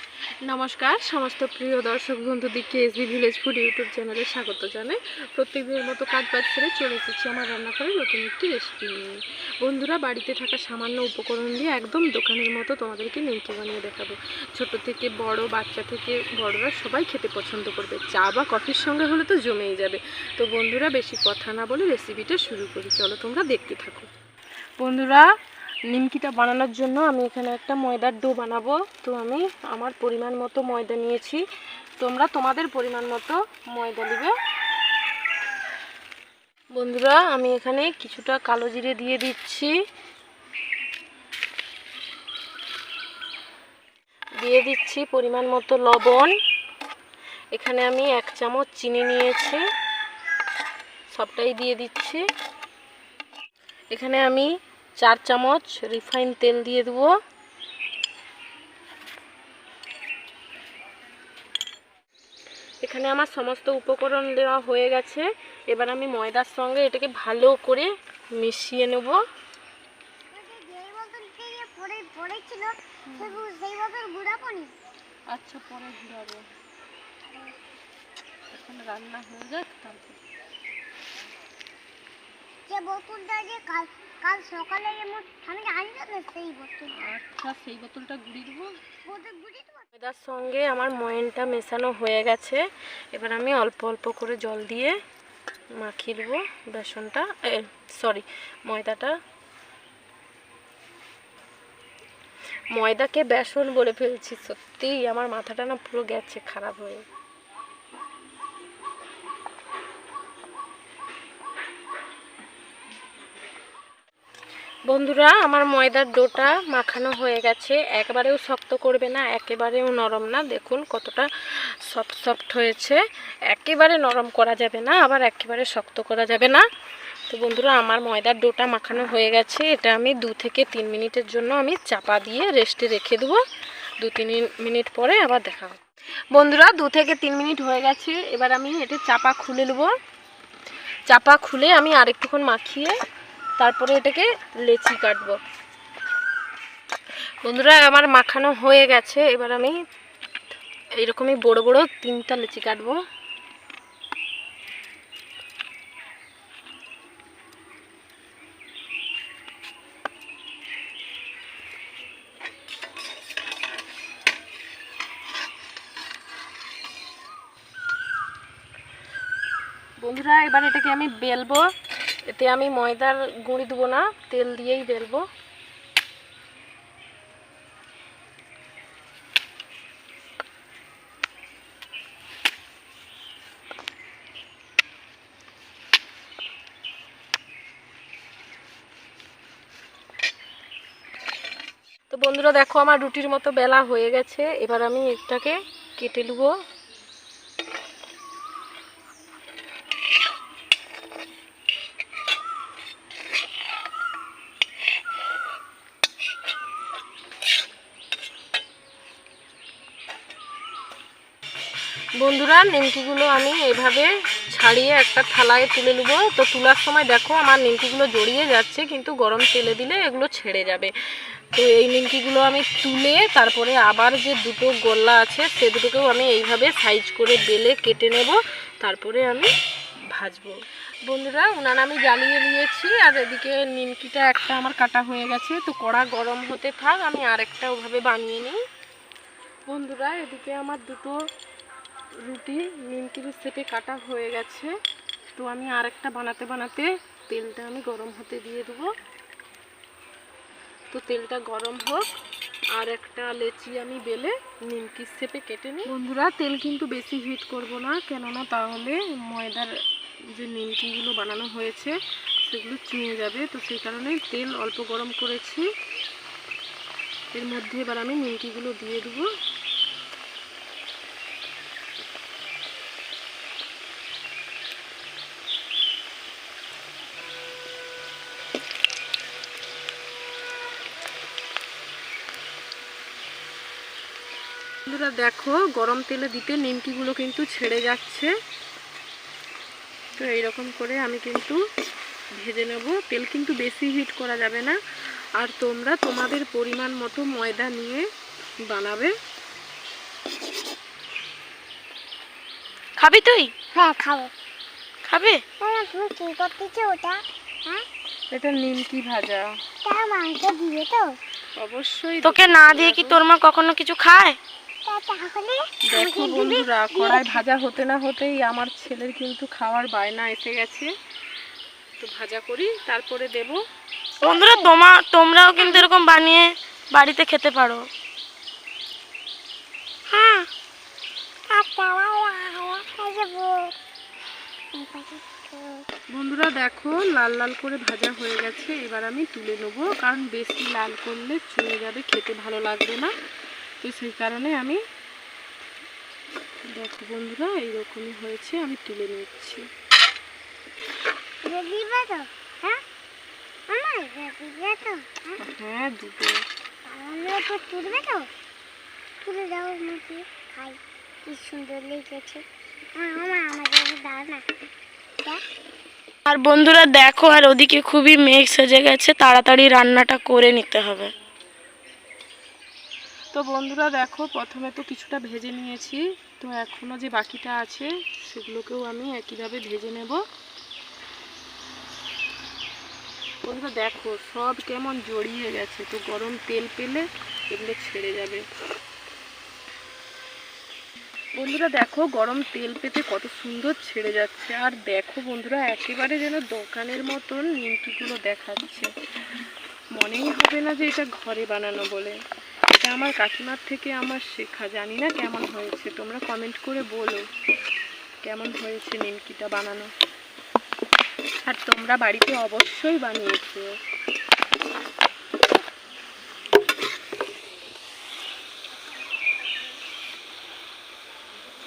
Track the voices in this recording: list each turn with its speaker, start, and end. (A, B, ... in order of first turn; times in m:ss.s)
0:00.4-0:24.1 A
0:24.8-0:25.2 A
0:25.9-0:31.4 A
0:32.0-0:34.3 A
0:36.7-0:39.7 A
0:44.4-0:46.4 A
0:47.5-0:49.6 A
0:51.1-0:52.2 A
0:53.9-0:57.1 A
1:02.8-1:09.2 A
1:10.3-1:14.7 B
1:13.1-1:13.4 A
1:15.3-1:16.4 A
1:18.5-1:20.2 A
1:22.7-1:27.0 B
1:26.9-1:28.7 A
1:29.0-1:29.8 B
1:29.9-1:35.0 A
1:35.8-1:39.2 A
1:42.7-1:47.0 A
1:54.9-2:06.6 A
2:07.3-2:13.4 A
2:14.0-2:15.8 A
2:16.3-2:19.9 A
2:21.1-2:23.0 A
2:23.6-2:25.4 A
2:27.4-2:29.7 A
2:31.0-2:33.0 A
2:50.0-2:51.7 A
2:52.3-2:55.2 A
3:12.1-3:16.5 A
3:32.2-3:40.9 A
3:41.5-3:49.5 A
3:50.1-3:58.6 A
3:59.6-4:01.2 A
4:02.2-4:04.7 A
4:05.4-4:08.9 A
4:10.9-4:12.1 A
4:12.7-4:19.7 A
4:20.3-4:25.7 A
4:27.3-4:29.3 A
4:44.8-4:48.3 A
4:50.2-4:51.6 A
4:52.4-4:54.8 A
4:55.4-4:58.0 A
4:58.6-4:59.1 A
5:03.0-5:03.5 C
5:03.7-5:04.3 B
5:05.0-5:05.4 C
5:05.6-5:07.8 B
5:08.3-5:09.5 A
5:09.8-5:11.2 B
5:11.6-5:13.2 A
5:12.2-5:14.4 C
5:14.8-5:17.4 B
5:15.9-5:20.9 A
5:22.0-5:23.6 A
5:24.2-5:27.9 C
5:24.2-5:24.7 B
5:25.6-5:25.8 B
5:30.1-5:30.4 B
5:31.5-5:33.7 B
5:34.7-5:35.9 B
5:36.1-5:43.1 A
5:43.8-5:44.8 A
5:46.7-5:49.6 A
5:51.4-5:52.8 B
5:53.7-5:55.4 B
5:55.4-5:56.4 A
5:56.8-5:58.3 B
5:59.2-6:04.4 B
6:06.3-6:11.1 C
6:13.3-6:20.2 A
6:23.4-6:28.4 A
6:31.4-6:38.9 A
6:39.9-6:42.2 A
6:42.7-6:47.2 A
6:48.2-6:49.9 A
6:51.4-6:53.7 A